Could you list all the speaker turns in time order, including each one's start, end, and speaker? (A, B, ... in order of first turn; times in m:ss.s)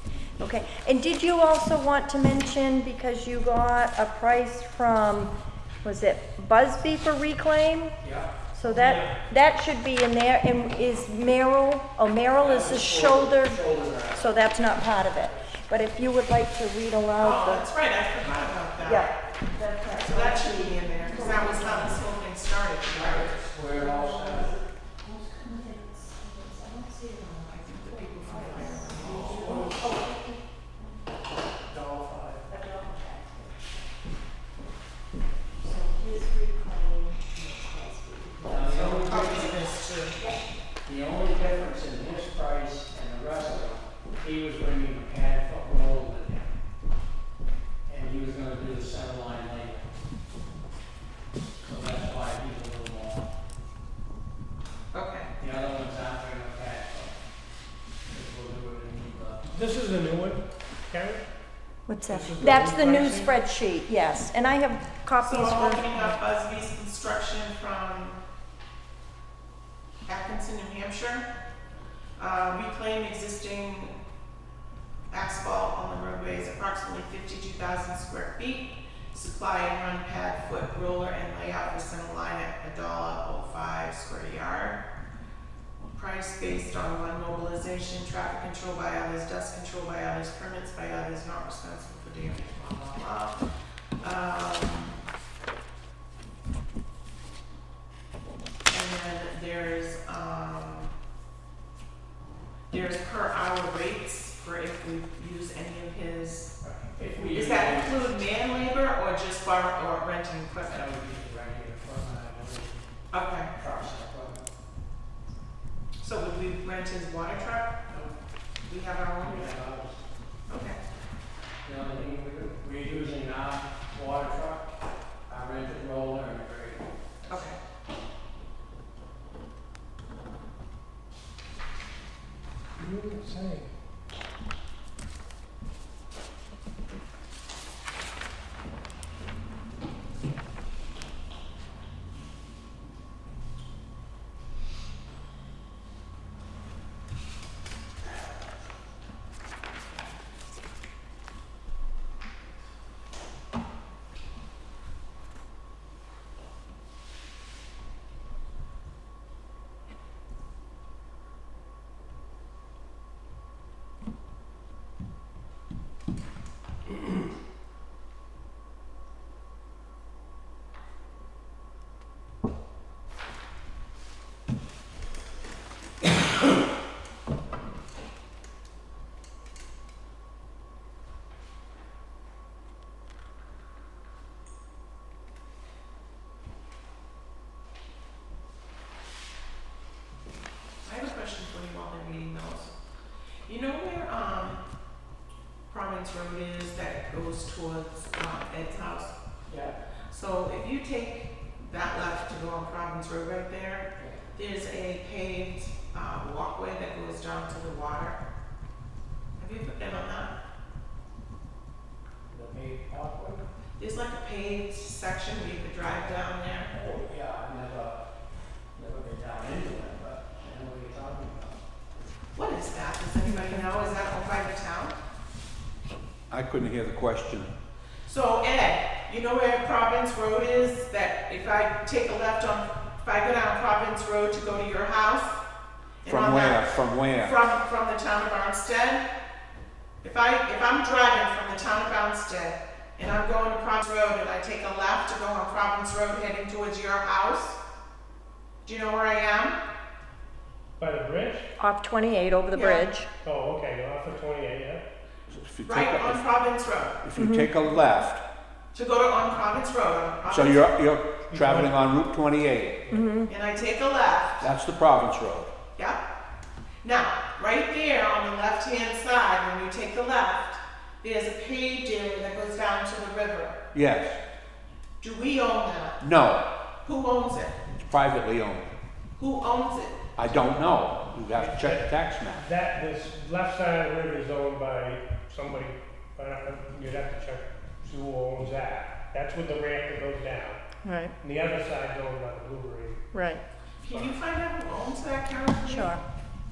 0:00.4-0:05.3 A
0:05.8-0:17.6 A
0:08.0-0:08.4 B
0:08.6-0:09.2 C
0:12.4-0:14.4 B
0:17.2-0:19.1 D
0:18.8-0:22.0 A
0:19.9-0:23.4 D
0:22.9-0:24.5 B
0:23.7-0:31.0 A
0:27.4-0:29.7 D
0:29.1-0:29.8 C
0:31.7-0:32.5 C
0:32.5-0:33.8 A
0:35.6-0:39.2 A
0:38.4-0:39.6 B
0:38.6-0:40.2 D
0:40.1-0:40.5 A
0:40.8-0:46.5 B
0:47.8-0:49.9 B
0:51.6-0:53.3 B
0:54.9-0:55.3 D
0:55.4-0:57.2 B
0:58.1-0:59.4 B
0:59.5-1:01.2 C
1:01.9-1:06.1 A
1:02.0-1:03.3 C
1:05.2-1:08.2 D
1:10.1-1:11.2 D
1:12.2-1:13.9 D
1:15.1-1:24.8 D
1:25.9-1:33.4 D
1:34.0-1:35.0 D
1:38.7-1:40.9 D
1:42.7-1:46.5 D
1:46.6-1:48.1 B
1:47.3-1:50.9 D
1:50.6-1:52.9 B
1:53.1-1:53.5 D
1:53.5-1:54.4 B
1:56.0-1:57.8 D
1:57.9-1:58.1 B
1:58.6-1:59.5 D
1:59.2-2:00.0 B
2:00.5-2:00.8 D
2:01.6-2:04.8 B
2:05.3-2:07.4 B
2:07.3-2:07.6 D
2:12.8-2:13.7 C
3:10.8-3:12.7 D
3:13.5-3:14.6 D
3:15.7-3:19.1 D
3:19.5-3:19.8 B
3:20.1-3:28.2 D
3:24.0-3:24.2 B
3:29.4-3:30.3 D
3:32.3-3:33.4 B
3:33.8-3:36.7 D
3:36.7-3:38.0 B
3:38.7-3:41.6 B
3:42.4-3:45.0 D
3:46.3-3:47.5 E
3:48.0-3:55.4 D
3:56.0-3:59.0 D
3:56.0-3:57.4 E
4:00.0-4:07.6 D
4:08.6-4:09.6 D
4:10.8-4:11.5 C
4:11.6-4:13.1 A
4:12.5-4:12.9 D
4:13.2-4:14.8 C
4:15.3-4:16.2 E
4:15.6-4:17.0 D
4:17.0-4:18.2 E
4:17.1-4:17.5 A
4:18.7-4:20.8 D
4:20.3-4:22.8 E
4:21.3-4:21.7 C
4:22.9-4:23.3 A
4:23.2-4:24.5 D
4:24.4-4:25.5 E
4:25.8-4:26.0 D
4:26.8-4:33.6 D
4:33.7-4:34.2 E
4:35.0-4:36.0 D
4:36.0-4:36.4 E
4:36.8-4:37.6 D
4:37.8-4:38.7 E
4:39.2-4:40.1 D
4:40.2-4:42.5 E
4:41.3-4:50.6 C
4:50.8-4:51.1 A
4:51.2-4:53.0 C
4:53.1-4:53.4 A
4:53.8-4:56.0 D
4:55.6-4:56.0 A